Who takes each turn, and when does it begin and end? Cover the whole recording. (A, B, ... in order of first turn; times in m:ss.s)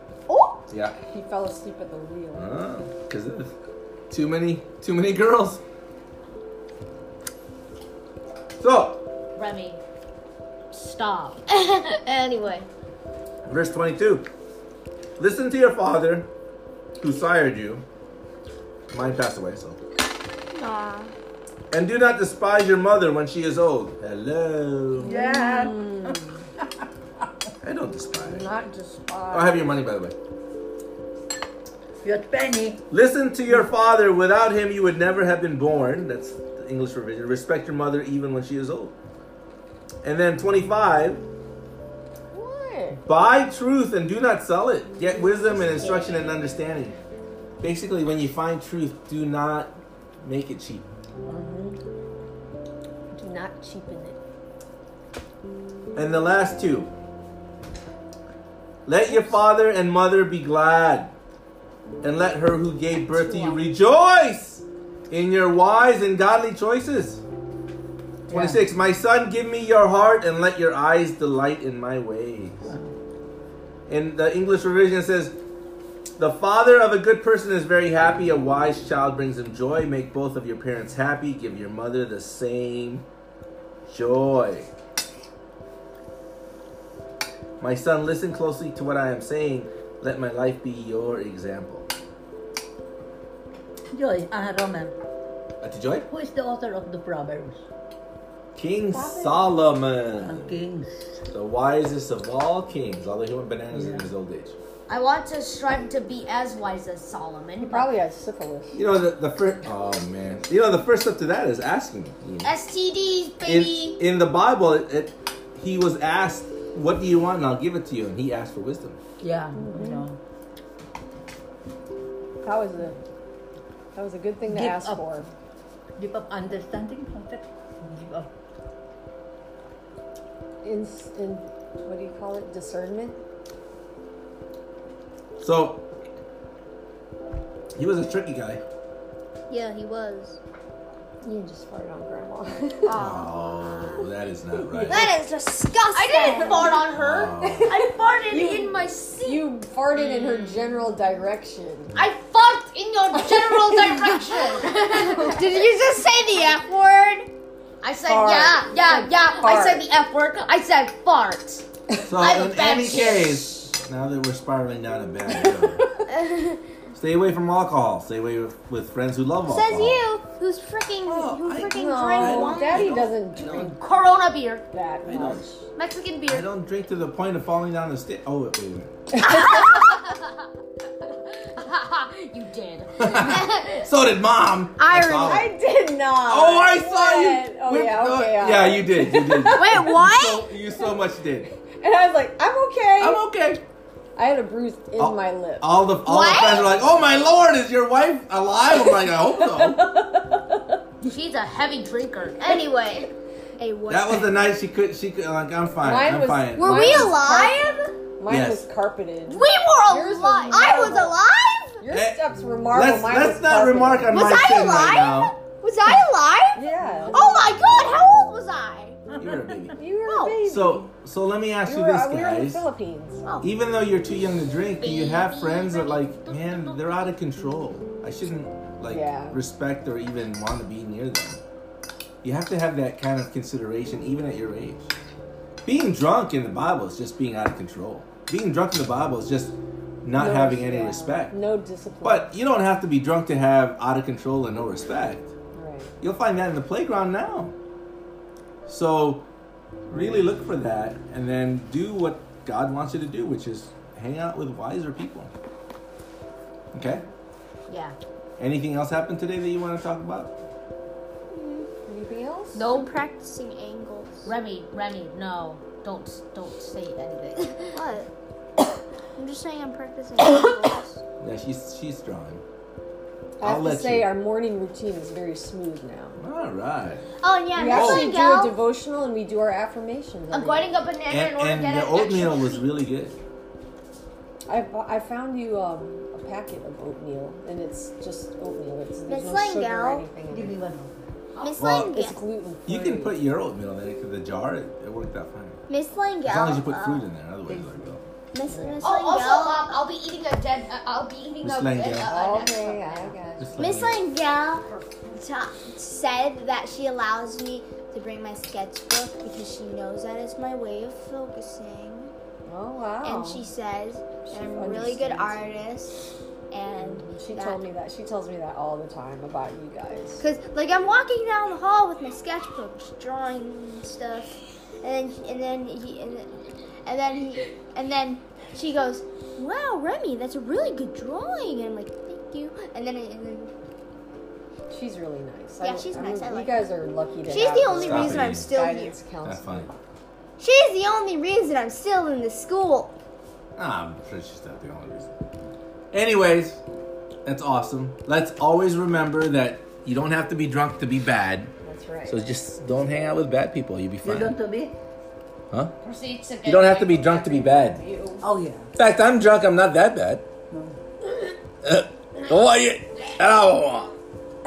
0:00.3-0:00.6 A
0:00.7-0:01.0 B
0:01.1-0:02.5 C
0:02.3-0:03.5 B
0:04.1-0:05.6 B
0:08.6-0:09.0 B
0:09.3-0:09.8 A
0:10.7-0:12.7 A
0:13.5-0:14.3 B
0:15.2-0:16.3 B
0:17.0-0:17.8 B
0:18.9-0:19.8 B
0:20.5-0:21.1 D
0:21.7-0:25.1 B
0:25.0-0:26.4 C
0:25.0-0:26.3 E
0:27.6-0:28.5 B
0:28.2-0:29.8 C
0:29.3-0:30.1 B
0:32.0-0:32.8 E
0:32.9-0:38.9 B
0:40.0-0:41.2 B
0:42.3-0:43.0 C
0:43.0-0:47.0 B
0:45.6-0:46.1 D
0:47.6-0:50.9 B
0:51.2-0:51.8 C
0:53.1-0:54.2 C
0:55.9-0:56.9 B
0:58.8-1:01.1 B
1:02.0-1:07.2 B
1:03.2-1:03.6 D
1:08.3-1:12.7 B
1:13.9-1:15.4 B
1:16.2-1:23.0 B
1:23.9-1:24.7 B
1:27.6-1:31.9 B
1:33.9-1:34.9 E
1:35.6-1:36.1 B
1:36.1-1:37.6 E
1:38.6-1:40.6 B
1:38.9-1:39.5 C
1:40.1-1:41.2 E
1:41.3-1:44.6 B
1:43.7-1:44.1 E
1:44.9-1:48.0 A
1:47.6-1:48.8 C
1:48.7-1:52.5 B
1:52.4-1:54.0 A
1:53.4-1:59.0 B
1:59.2-2:00.2 E
1:59.5-2:00.1 C
2:02.4-2:03.0 C
2:03.9-2:05.3 C
2:04.5-2:05.2 E
2:06.0-2:08.3 E
2:10.6-2:13.2 C
2:15.4-2:15.8 B
2:17.8-2:18.6 B
2:19.5-2:20.4 D
2:21.2-2:23.0 C
2:22.8-2:24.1 D
2:23.0-2:25.1 B
2:24.5-2:25.0 E
2:24.8-2:26.8 D
2:25.9-2:30.7 A
2:26.9-2:27.7 B
2:27.4-2:27.7 C
2:28.3-2:31.9 C
2:31.9-2:35.6 A
2:33.3-2:33.9 C
2:35.1-2:37.3 D
2:37.8-2:41.6 A
2:38.0-2:39.8 C
2:42.1-2:45.8 B
2:42.2-2:43.4 A
2:42.8-2:43.3 D
2:45.4-2:45.8 C
2:46.1-2:46.6 D
2:46.9-2:50.0 B
2:49.5-2:53.0 D
2:51.0-2:53.7 B
2:51.5-2:53.8 C
2:53.4-2:54.6 A
2:54.7-2:55.6 C
2:55.1-2:55.4 B
2:55.8-2:56.4 A
2:56.3-2:58.9 B
2:59.2-2:59.6 C
2:59.2-3:00.1 A
3:01.3-3:03.9 A
3:03.0-3:05.5 B
3:04.8-3:05.5 D
3:05.2-3:09.9 C
3:06.3-3:11.5 B
3:09.5-3:10.5 D
3:11.7-3:13.2 C
3:13.0-3:13.6 B
3:14.2-3:15.8 C
3:15.0-3:19.8 B
3:16.0-3:16.8 D
3:18.7-3:20.6 C
3:21.0-3:22.6 A
3:22.4-3:24.4 D
3:23.9-3:27.1 B
3:25.8-3:31.2 C
3:26.6-3:27.9 D
3:28.3-3:28.7 B
3:29.3-3:31.8 D
3:31.8-3:34.2 C
3:31.9-3:32.2 B
3:32.7-3:35.3 B
3:34.1-3:39.0 D
3:36.5-3:37.2 C
3:39.1-3:39.5 E
3:39.2-3:39.8 B
3:39.8-3:40.9 C
3:40.0-3:40.4 D
3:40.5-3:42.6 B
3:41.6-3:43.2 C
3:43.4-3:51.4 B
3:44.8-3:47.1 D
3:48.9-3:49.4 C
3:52.2-3:54.9 B
3:55.6-4:01.4 B
4:00.1-4:02.3 C
4:02.0-4:05.3 B
4:05.5-4:05.9 C
4:06.0-4:07.5 B
4:08.7-4:09.3 B
4:09.9-4:15.3 B
4:16.7-4:17.0 B
4:17.7-4:18.0 A
4:18.4-4:20.3 B
4:21.3-4:21.7 D
4:21.8-4:22.7 C
4:22.5-4:24.3 D
4:24.2-4:27.8 A
4:27.7-4:28.1 D
4:29.2-4:31.0 D
4:31.2-4:32.4 B
4:33.4-4:36.2 C
4:33.4-4:34.1 B
4:36.2-4:37.0 B
4:37.2-4:38.6 D
4:37.5-4:40.7 C
4:37.7-4:38.1 B
4:40.3-4:42.4 A
4:40.8-4:42.6 D
4:41.1-4:43.2 B
4:44.5-4:50.6 C
4:49.1-4:50.1 D
4:50.2-4:51.0 E
4:51.4-4:52.2 D
4:51.6-4:51.9 B
4:51.7-4:53.2 C
4:52.6-4:55.6 B
4:55.7-4:57.1 D
4:56.2-4:58.0 B
4:57.4-4:57.8 E
4:58.3-4:59.7 D
4:58.5-4:58.8 C
4:58.8-5:03.2 A
5:01.4-5:02.1 B
5:02.0-5:03.5 C
5:03.4-5:04.0 B
5:03.6-5:12.1 D
5:04.6-5:05.2 A
5:12.4-5:13.5 C
5:13.0-5:17.6 D
5:14.2-5:15.6 C
5:16.8-5:20.2 C
5:20.2-5:33.5 D
5:34.7-5:39.7 C
5:35.6-5:36.7 D
5:37.2-5:39.0 D
5:37.7-5:38.5 B
5:39.2-5:39.7 B
5:40.4-5:42.9 D
5:43.6-5:45.1 B
5:45.9-5:46.6 B
5:47.2-5:51.5 B
5:51.6-5:52.2 C
5:52.1-5:54.4 B
5:54.0-5:54.7 E
5:55.8-5:58.2 A
5:56.4-5:57.8 B
5:58.2-5:58.7 E
5:58.8-6:00.2 B
6:01.6-6:03.9 B